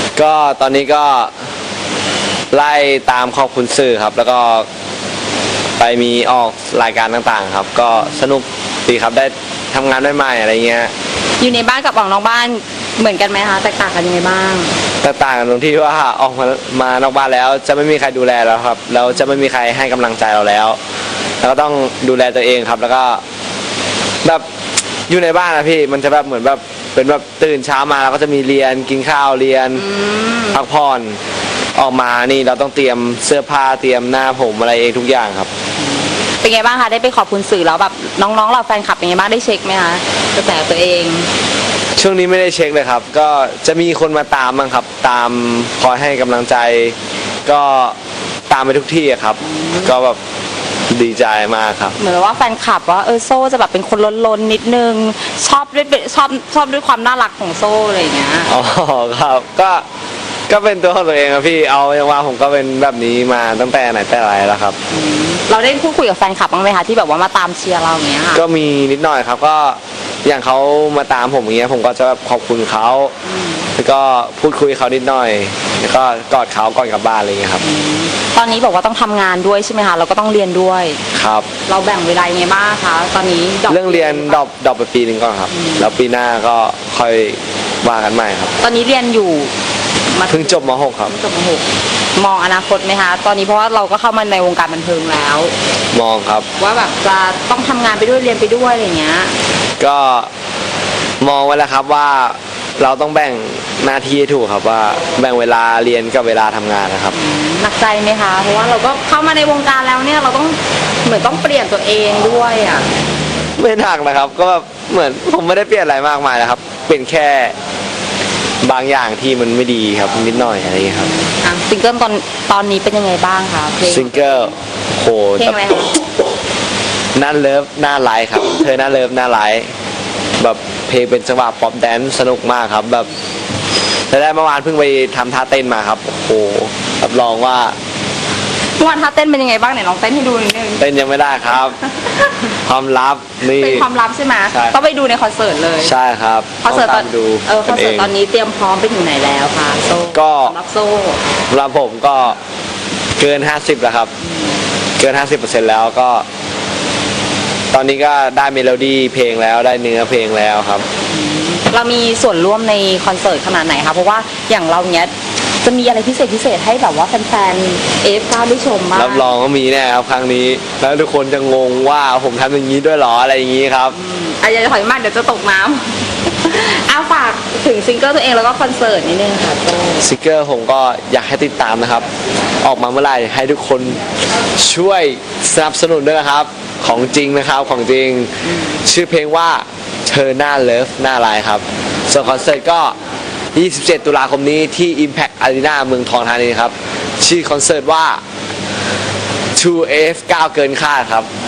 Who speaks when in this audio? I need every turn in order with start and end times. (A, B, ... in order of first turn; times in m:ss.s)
0:00.2-0:01.3 A
0:02.5-0:04.7 A
0:05.8-0:10.9 A
0:07.9-0:08.2 B
0:11.4-0:14.7 B
0:15.0-0:20.8 A
0:21.4-0:23.2 A
0:25.1-0:29.8 A
0:29.8-0:30.6 B
0:30.5-0:31.2 A
0:31.8-0:35.5 A
0:36.3-0:41.3 B
0:42.0-0:48.0 A
0:48.5-0:50.2 A
0:49.4-0:49.9 B
0:50.9-0:52.0 A
0:52.0-0:58.5 B
0:58.5-0:59.8 A
1:00.5-1:04.8 A
1:04.9-1:08.4 B
1:08.3-1:13.1 A
1:13.2-1:13.7 B
1:13.8-1:17.6 A
1:17.6-1:21.0 B
1:21.1-1:21.5 A
1:21.7-1:24.4 B
1:23.7-1:28.5 A
1:25.5-1:25.9 B
1:28.6-1:29.5 B
1:30.1-1:35.5 B
1:30.3-1:31.1 A
1:35.9-1:36.5 A
1:36.6-1:39.3 B
1:39.8-1:40.3 A
1:41.2-1:47.2 A
1:47.1-1:52.9 B
1:53.6-1:57.6 A
1:58.6-2:01.1 A
2:01.0-2:04.5 B
2:03.8-2:05.9 A
2:05.4-2:06.0 B
2:07.2-2:09.7 A
2:10.4-2:13.1 A
2:14.1-2:17.8 A
2:18.8-2:20.9 B
2:20.8-2:21.8 A
2:21.5-2:22.5 B
2:22.6-2:23.9 A
2:23.4-2:25.9 B
2:24.5-2:24.8 A
2:25.8-2:28.1 A
2:26.6-2:31.2 B
2:30.1-2:30.6 A
2:31.5-2:32.4 A
2:33.2-2:34.1 A
2:35.0-2:36.3 A
2:37.7-2:40.9 A
2:41.1-2:49.3 B
2:48.9-2:54.0 A
2:53.9-3:00.0 B
3:00.0-3:02.1 A
3:02.6-3:04.0 A
3:04.6-3:13.0 A
3:13.6-3:18.2 A
3:19.6-3:21.3 A